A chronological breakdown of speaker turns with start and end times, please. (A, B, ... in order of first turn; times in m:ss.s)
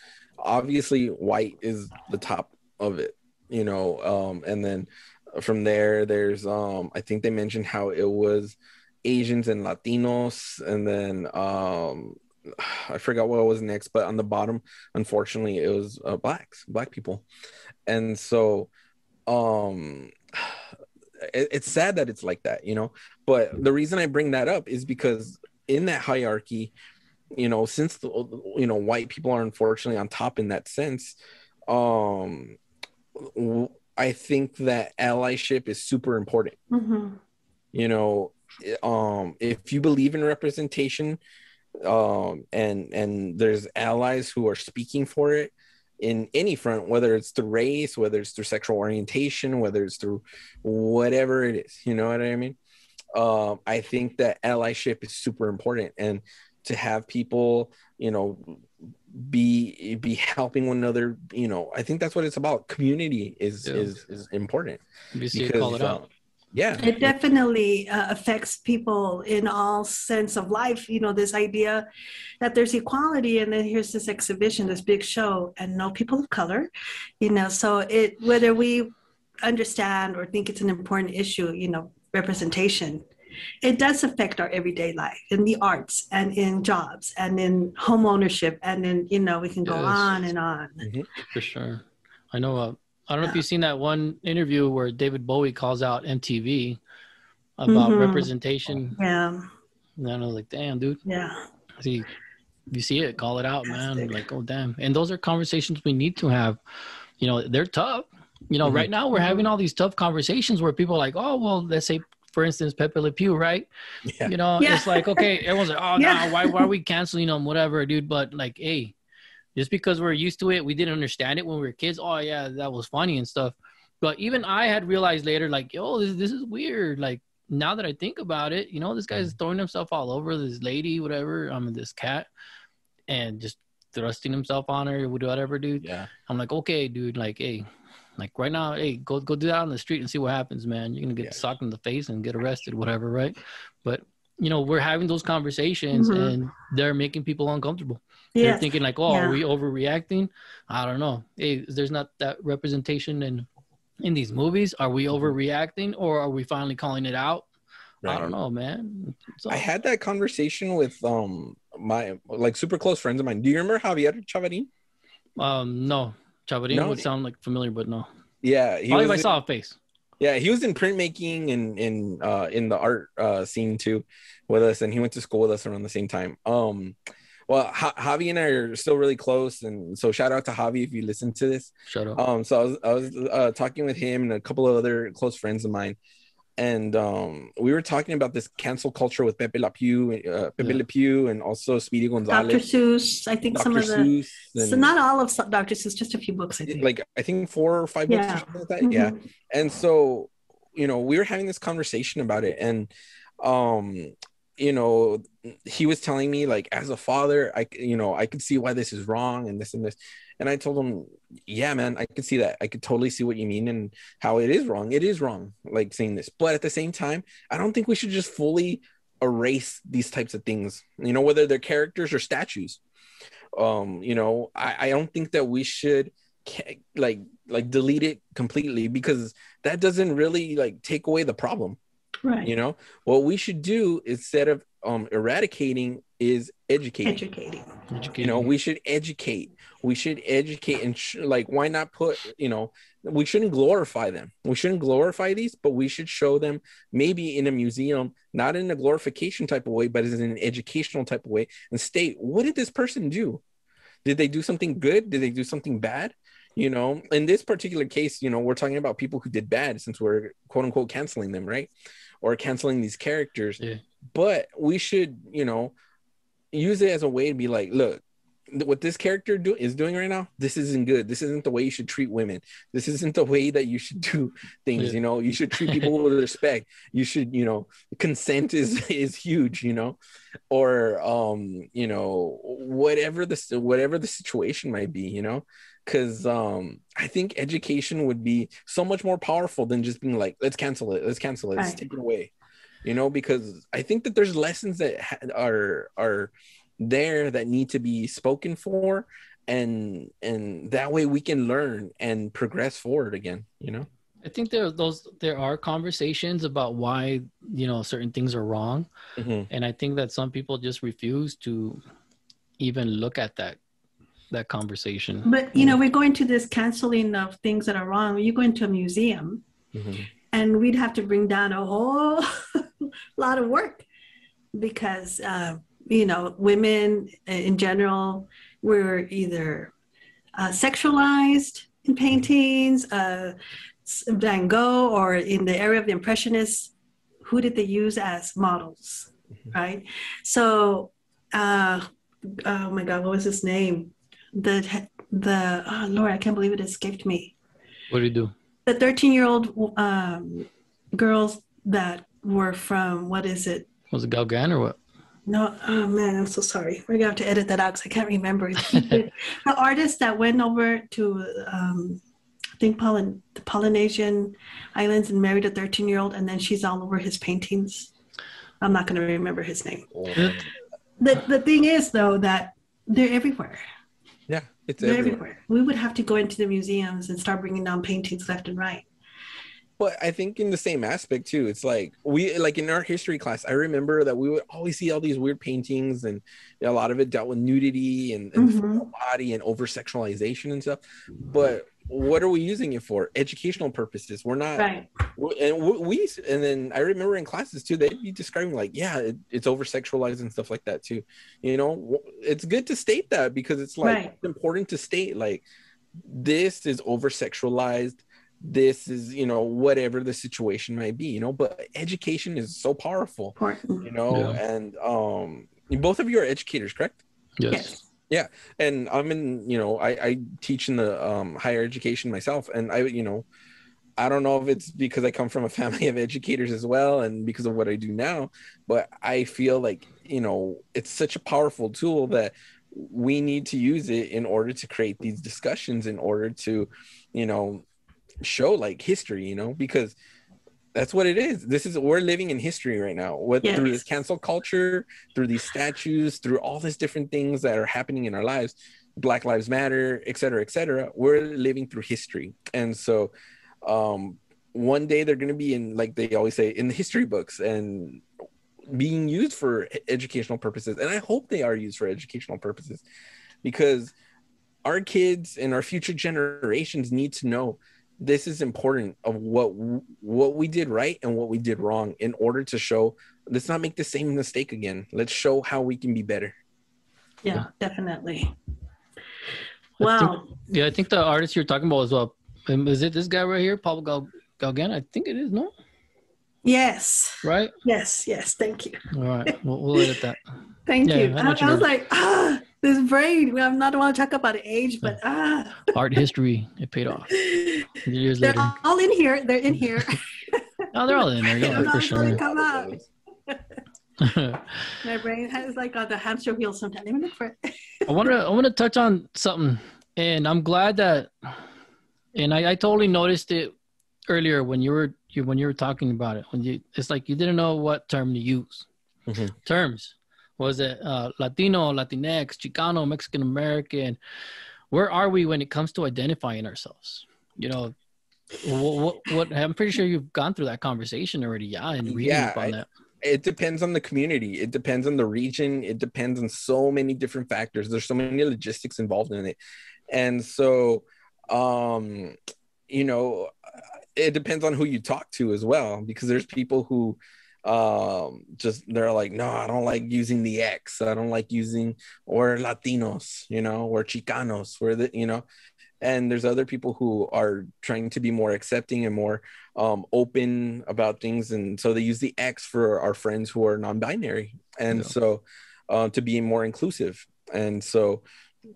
0:00.4-0:17.2 A
0:17.9-0:18.7 A
0:19.3-0:20.6 A
0:21.2-0:26.7 A
0:27.4-0:31.2 A
0:31.7-0:32.6 A
0:33.2-0:36.6 A
0:36.7-0:37.2 B
0:37.7-0:41.2 A
0:41.8-0:52.6 A
0:53.1-1:04.8 A
1:03.6-1:03.9 C
1:05.1-1:06.0 C
1:05.3-1:07.1 A
1:06.8-1:11.9 B
1:12.4-1:23.1 B
1:23.6-1:30.9 B
1:29.7-1:30.2 C
1:30.8-1:31.1 A
1:31.3-1:36.8 C
1:37.6-1:39.0 C
1:37.7-1:38.3 B
1:39.0-1:39.5 B
1:40.0-1:41.0 C
1:41.1-1:41.4 B
1:41.8-1:42.1 C
1:42.7-1:46.6 C
1:43.7-1:44.2 B
1:47.2-1:53.7 C
1:49.1-1:49.5 B
1:54.2-1:59.0 C
1:54.6-1:55.4 B
1:56.0-1:56.7 B
1:59.6-2:12.3 C
2:13.1-2:17.7 C
2:15.8-2:16.1 A
2:18.2-2:33.5 C
2:25.9-2:26.4 B
2:28.4-2:29.4 B
2:34.0-2:37.5 C
2:38.0-2:38.3 A
2:38.0-2:39.6 C
2:39.5-2:44.7 A
2:45.4-2:48.1 C
2:46.7-2:47.1 A
2:48.4-2:49.3 A
2:48.9-2:49.8 C
2:50.2-2:57.0 A
2:57.5-3:06.0 A
3:01.9-3:02.2 C
3:06.6-3:12.6 A
3:12.3-3:16.9 B
3:13.5-3:14.9 A
3:16.7-3:22.9 A
3:18.1-3:19.2 B
3:23.4-3:42.8 A
3:43.6-3:51.8 A
3:52.2-3:52.5 B
3:52.4-3:57.2 A
3:57.0-3:57.7 B
3:57.9-3:58.5 C
3:58.2-4:13.4 A
4:14.0-4:21.7 A
4:22.2-4:23.6 A
4:24.1-4:25.7 A
4:26.5-4:40.0 A
4:35.6-4:35.9 C
4:40.5-4:52.3 A
4:52.8-5:03.9 A
5:04.2-5:08.9 C
5:09.2-5:09.5 A
5:09.5-5:11.8 C
5:12.6-5:13.6 C
5:14.3-5:15.3 C
5:15.3-5:19.4 B
5:19.7-5:20.1 A
5:20.3-5:23.9 B
5:24.5-5:29.7 B
5:30.4-5:47.4 B
5:47.9-5:48.3 C
5:48.7-5:53.7 B
5:53.9-5:54.8 C
5:55.3-6:02.0 B
5:58.6-5:59.0 C
6:02.6-6:07.9 B
6:08.6-6:09.9 B
6:09.9-6:10.5 A
6:10.1-6:10.4 C
6:11.0-6:13.6 B
6:14.3-6:15.2 A
6:14.8-6:18.8 B
6:19.8-6:45.4 A
6:28.4-6:28.9 B
6:34.6-6:34.9 B
6:43.8-6:44.2 B
6:46.0-6:57.0 A
6:53.4-6:53.9 B
6:54.1-6:54.4 C
6:57.4-6:57.8 C
6:57.5-6:57.9 B
6:58.1-7:03.3 A
7:04.0-7:17.6 A
7:18.2-7:20.0 A
7:20.8-7:33.1 A
7:23.4-7:23.8 B
7:33.6-7:38.0 A
7:38.7-7:42.8 A
7:43.4-7:43.9 A
7:44.6-7:56.4 A
7:57.2-7:58.3 B
7:59.8-8:05.5 C
7:59.8-8:00.3 B
8:06.4-8:08.8 B
8:07.2-8:07.5 C
8:08.9-8:10.2 C
8:10.7-8:15.8 B
8:10.8-8:11.7 C
8:15.7-8:17.1 C
8:17.1-8:22.8 B
8:17.8-8:18.6 C
8:20.7-8:22.2 C
8:21.4-8:22.9 A
8:24.0-8:24.8 C
8:24.8-8:28.1 B
8:27.9-8:31.4 C
8:32.2-8:33.5 C
8:34.1-8:38.7 C
8:39.1-8:39.3 A
8:39.4-8:44.0 C
8:44.7-8:47.8 C
8:48.4-8:52.7 C
8:51.8-8:59.4 A
8:59.9-9:02.2 A
9:02.7-9:03.3 A
9:04.0-9:15.2 A
9:15.8-9:28.0 A